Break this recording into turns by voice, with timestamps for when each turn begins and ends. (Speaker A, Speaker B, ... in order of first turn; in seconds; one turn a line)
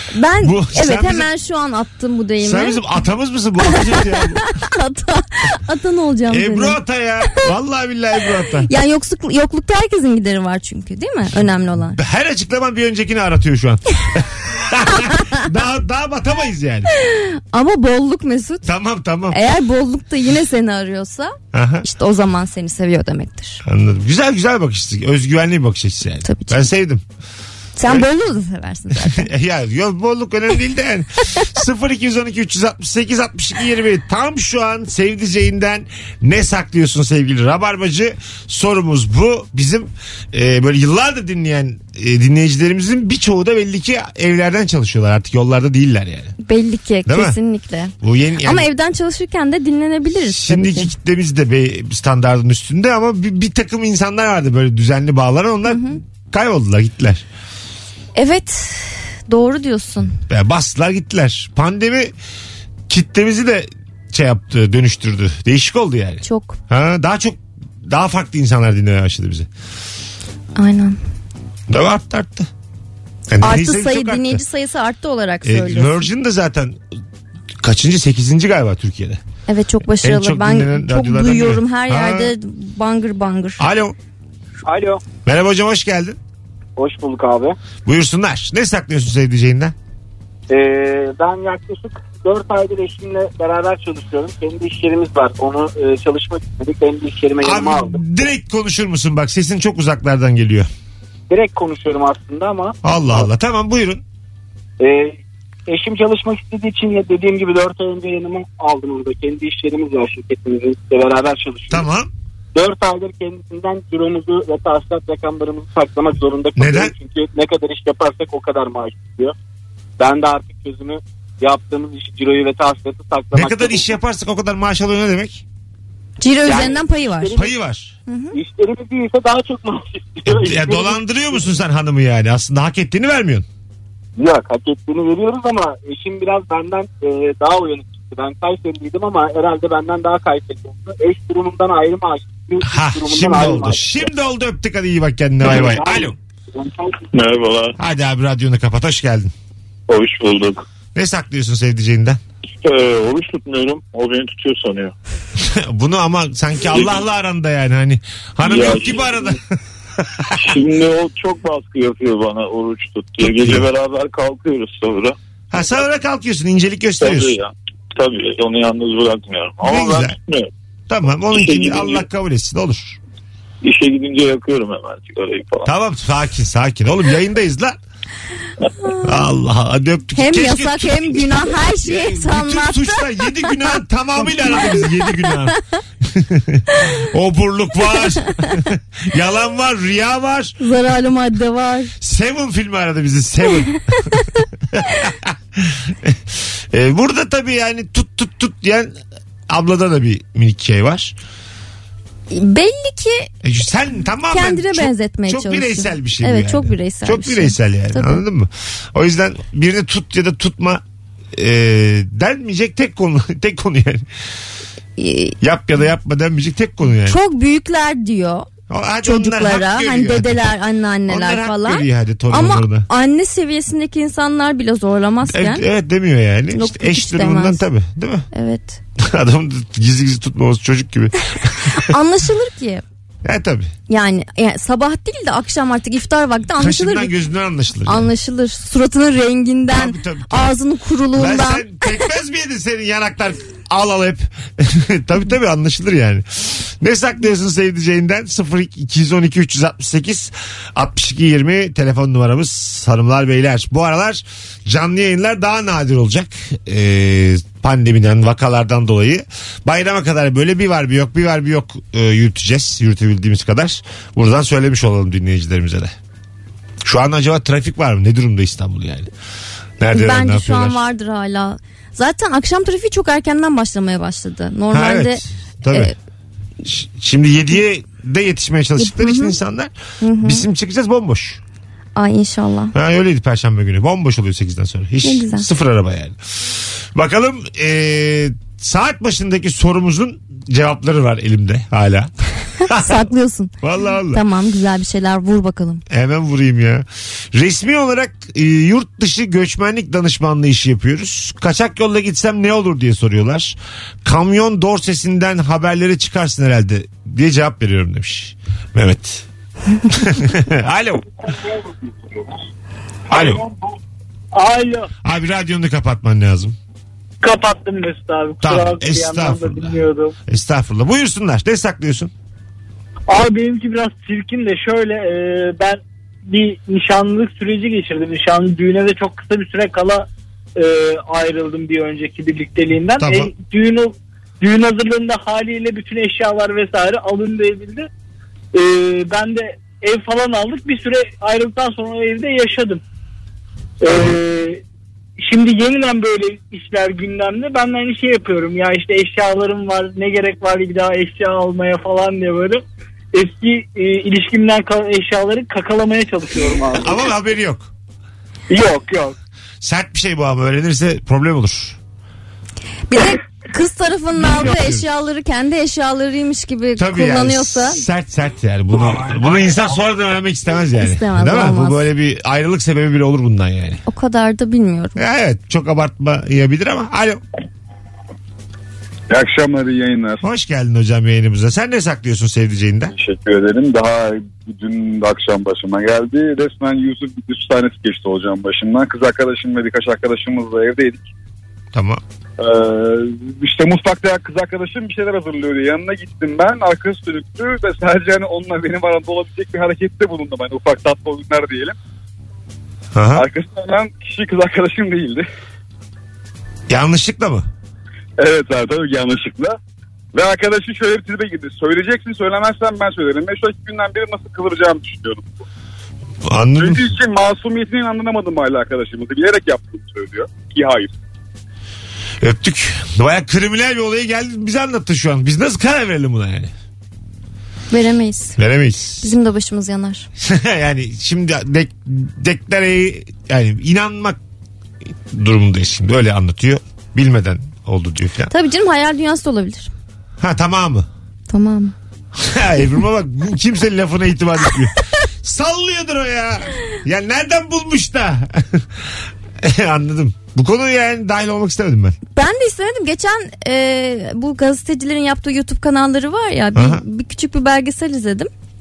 Speaker A: 0.1-2.9
Speaker B: 0.4-1.3
Speaker B: 2.4-4.6
Speaker A: 3.6-6.8
Speaker B: 6.3-8.7
Speaker A: 8.6-12.0
Speaker B: 11.3-16.9
Speaker A: 16.9-18.6
Speaker B: 18.6-19.4
Speaker A: 19.3-23.6
Speaker B: 21.5-21.9
Speaker B: 23.6-27.0
Speaker A: 26.2-26.6
Speaker A: 27.8-29.3
Speaker B: 29.0-46.3
Speaker A: 46.4-50.9
Speaker B: 47.1-47.4
Speaker B: 48.0-48.7
Speaker B: 50.2-57.2
Speaker A: 55.6-56.0
Speaker A: 58.1-60.1
Speaker B: 60.3-62.1
Speaker B: 62.9-69.5
Speaker A: 66.2-66.6
Speaker A: 70.6-71.0
Speaker B: 71.7-72.5
Speaker B: 73.3-74.4
Speaker A: 73.4-76.0
Speaker B: 75.4-76.8
Speaker B: 77.6-79.2
Speaker A: 79.5-83.6
Speaker B: 80.0-82.3
Speaker B: 83.6-84.0
Speaker C: 84.7-85.0
Speaker B: 85.2-86.2
Speaker C: 86.8-87.6
Speaker B: 87.9-89.8
Speaker C: 90.5-98.0
Speaker B: 97.4-100.7
Speaker C: 101.3-102.8
Speaker B: 102.8-104.0
Speaker C: 104.8-111.8
Speaker B: 111.7-112.1
Speaker C: 112.5-119.3
Speaker B: 116.6-116.9
Speaker C: 120.0-123.9
Speaker B: 123.3-125.4
Speaker A: 126.2-127.4
Speaker C: 126.4-127.5
Speaker B: 127.3-127.9
Speaker A: 128.1-128.4
Speaker C: 128.3-131.4
Speaker B: 130.2-133.4
Speaker C: 134.2-144.1
Speaker B: 142.6-146.2
Speaker C: 145.5-147.0
Speaker D: 147.1-147.8
Speaker B: 147.8-149.3
Speaker D: 149.9-150.7
Speaker B: 150.9-152.2
Speaker D: 152.6-154.9
Speaker B: 155.4-159.4
Speaker D: 156.7-157.0
Speaker D: 158.4-159.3
Speaker B: 160.0-160.4
Speaker D: 160.4-165.1
Speaker B: 163.2-163.7
Speaker B: 165.5-167.4
Speaker D: 167.0-170.5
Speaker B: 169.6-170.2
Speaker B: 170.9-173.0
Speaker D: 171.3-172.1
Speaker D: 173.6-175.7
Speaker B: 175.6-177.8
Speaker B: 179.0-190.6
Speaker A: 180.1-183.7
Speaker A: 184.4-185.6
Speaker A: 186.7-187.1
Speaker A: 187.9-188.6
Speaker A: 190.6-191.9
Speaker B: 192.0-194.2
Speaker A: 193.7-194.2
Speaker B: 194.7-198.9
Speaker B: 199.5-201.1
Speaker A: 202.3-203.3
Speaker B: 203.4-214.1
Speaker A: 204.3-208.2
Speaker A: 215.0-215.4
Speaker B: 215.4-217.2
Speaker A: 217.0-218.5
Speaker B: 218.7-220.6
Speaker A: 219.0-225.6
Speaker B: 221.1-222.9
Speaker B: 225.3-228.2
Speaker A: 226.5-227.6
Speaker A: 228.3-228.8
Speaker B: 229.0-231.9
Speaker A: 231.7-232.8
Speaker B: 233.2-233.7
Speaker A: 233.9-237.1
Speaker B: 236.6-238.1
Speaker A: 237.9-242.0
Speaker B: 239.7-240.5
Speaker B: 241.1-265.9
Speaker B: 266.8-269.1
Speaker B: 269.8-270.8
Speaker A: 269.9-275.9
Speaker B: 274.7-275.9
Speaker B: 276.6-281.4
Speaker A: 278.8-279.4
Speaker A: 280.0-280.4
Speaker A: 282.0-282.7
Speaker B: 282.7-286.2
Speaker A: 285.0-285.5
Speaker B: 286.9-293.1
Speaker A: 292.6-293.5
Speaker B: 293.6-294.2
Speaker A: 294.1-295.8
Speaker B: 295.9-309.3
Speaker B: 309.9-311.1
Speaker B: 313.1-313.4
Speaker E: 313.1-313.4
Speaker E: 314.3-314.9
Speaker B: 315.0-316.5
Speaker E: 317.2-320.1
Speaker B: 318.4-319.8
Speaker B: 320.3-322.1
Speaker E: 323.1-337.9
Speaker B: 333.0-333.3
Speaker E: 338.5-342.8
Speaker E: 343.8-344.6
Speaker E: 345.2-352.6
Speaker E: 353.1-357.0
Speaker B: 356.7-357.7
Speaker E: 358.5-359.1
Speaker B: 359.6-361.8
Speaker A: 362.9-367.8
Speaker B: 364.2-364.9
Speaker B: 366.8-373.8
Speaker A: 370.8-371.9
Speaker A: 373.9-375.0
Speaker B: 375.0-377.2
Speaker F: 379.1-380.2
Speaker B: 380.2-382.9
Speaker F: 382.9-391.1
Speaker B: 391.7-392.0
Speaker F: 392.4-401.8
Speaker B: 402.9-403.2
Speaker F: 403.1-405.2
Speaker B: 406.7-407.4
Speaker F: 408.2-409.5
Speaker F: 410.1-415.3
Speaker B: 416.2-416.9
Speaker F: 416.6-420.9
Speaker B: 422.2-426.5
Speaker A: 427.7-428.4
Speaker B: 428.4-429.1
Speaker A: 429.0-430.1
Speaker B: 430.2-434.2
Speaker B: 435.1-438.3
Speaker A: 438.3-439.7
Speaker B: 440.2-440.9
Speaker A: 441.3-441.7
Speaker B: 442.2-448.9
Speaker B: 449.4-452.0
Speaker A: 452.1-458.3
Speaker B: 456.5-456.8